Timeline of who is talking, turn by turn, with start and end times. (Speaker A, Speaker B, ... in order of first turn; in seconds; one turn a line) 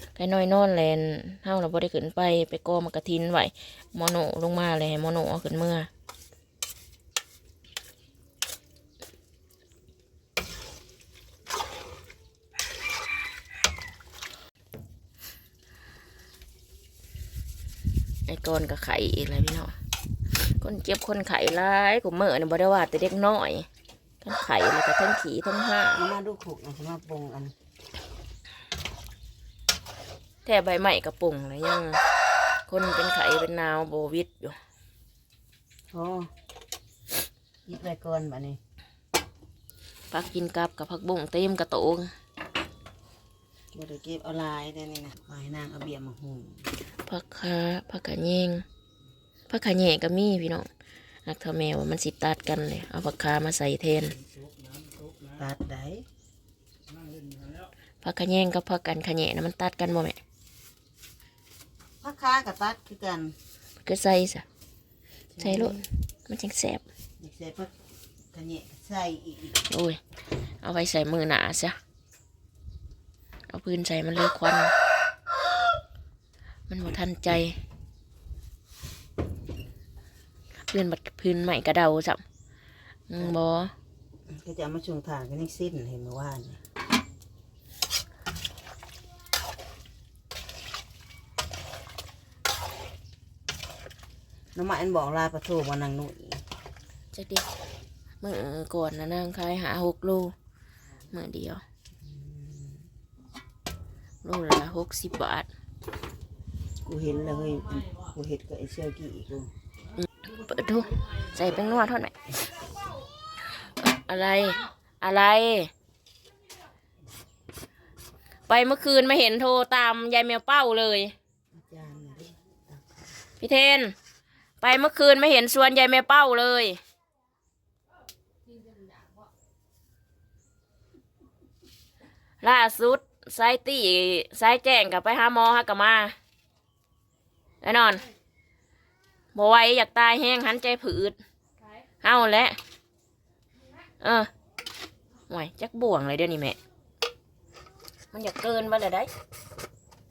Speaker A: 0.1-5.9
Speaker A: 18.3-23.7
Speaker A: 24.2-26.0
Speaker B: 25.9-27.5
Speaker A: 30.4-32.0
Speaker A: 32.7-34.6
Speaker B: 35.9-36.3
Speaker B: 37.6-38.6
Speaker A: 40.1-42.1
Speaker B: 43.7-46.6
Speaker A: 47.1-48.6
Speaker A: 49.5-50.7
Speaker A: 51.2-54.2
Speaker B: 55.2-56.0
Speaker A: 58.0-60.2
Speaker B: 62.0-63.3
Speaker A: 63.8-64.4
Speaker B: 65.3-65.8
Speaker A: 65.4-66.8
Speaker B: 67.2-67.7
Speaker B: 68.3-69.6
Speaker A: 69.7-70.0
Speaker A: 70.6-71.8
Speaker A: 73.5-74.7
Speaker A: 76.7-77.6
Speaker A: 80.7-82.2
Speaker A: 83.1-83.7
Speaker B: 84.3-86.6
Speaker B: 94.5-96.4
Speaker A: 97.1-97.5
Speaker A: 98.2-100.3
Speaker A: 101.1-101.6
Speaker B: 102.1-102.8
Speaker A: 104.2-105.5
Speaker B: 106.8-109.5
Speaker A: 110.2-112.1
Speaker A: 113.6-115.7
Speaker A: 118.5-121.1
Speaker B: 121.5-123.1
Speaker A: 123.4-123.9
Speaker A: 124.6-126.8
Speaker A: 132.4-136.1
Speaker A: 137.6-138.1
Speaker A: 139.3-141.2
Speaker A: 142.0-142.6
Speaker A: 144.0-144.3
Speaker A: 145.3-146.6
Speaker A: 148.1-149.1